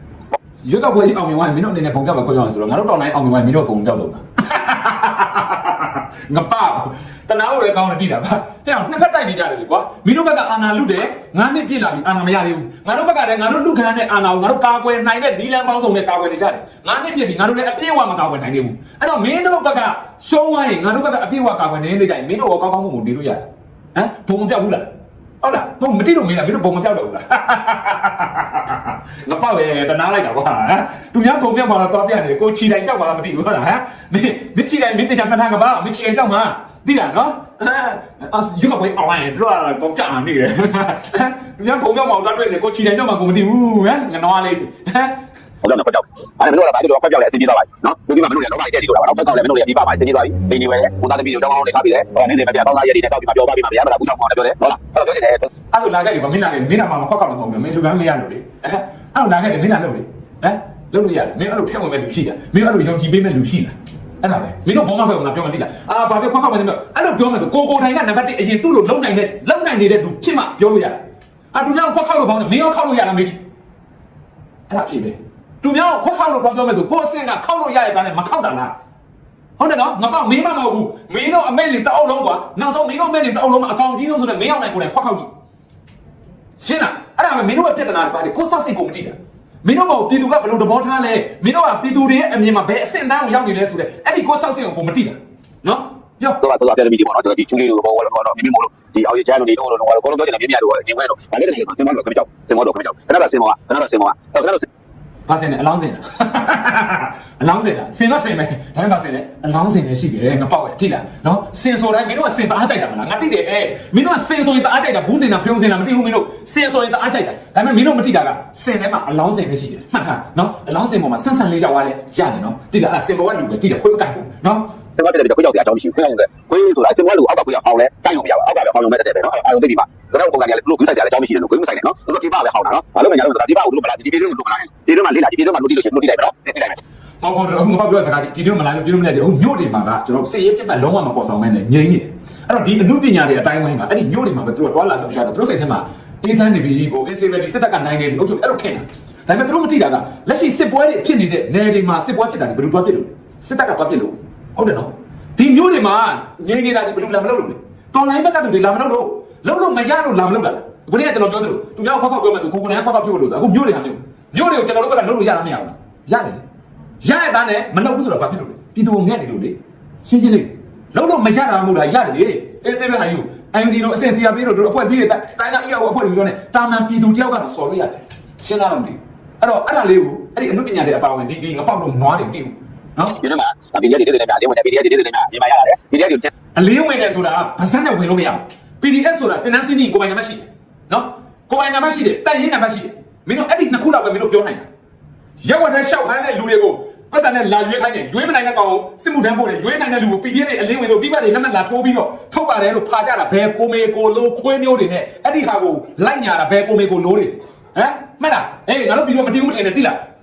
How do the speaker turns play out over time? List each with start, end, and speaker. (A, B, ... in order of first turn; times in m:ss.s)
0:00.6-0:24.9 A
0:25.4-0:45.2 A
0:45.6-0:55.5 B
0:55.7-1:11.0 A
1:11.5-1:13.4 A
1:14.7-1:18.7 A
1:19.6-1:25.3 A
1:26.6-1:36.4 A
1:36.4-1:44.7 B
1:45.3-2:04.7 A
2:05.0-2:16.8 B
2:17.2-2:46.4 A
2:47.0-3:03.2 A
3:03.2-3:06.3 B
3:06.6-3:14.7 A
3:15.4-3:30.0 A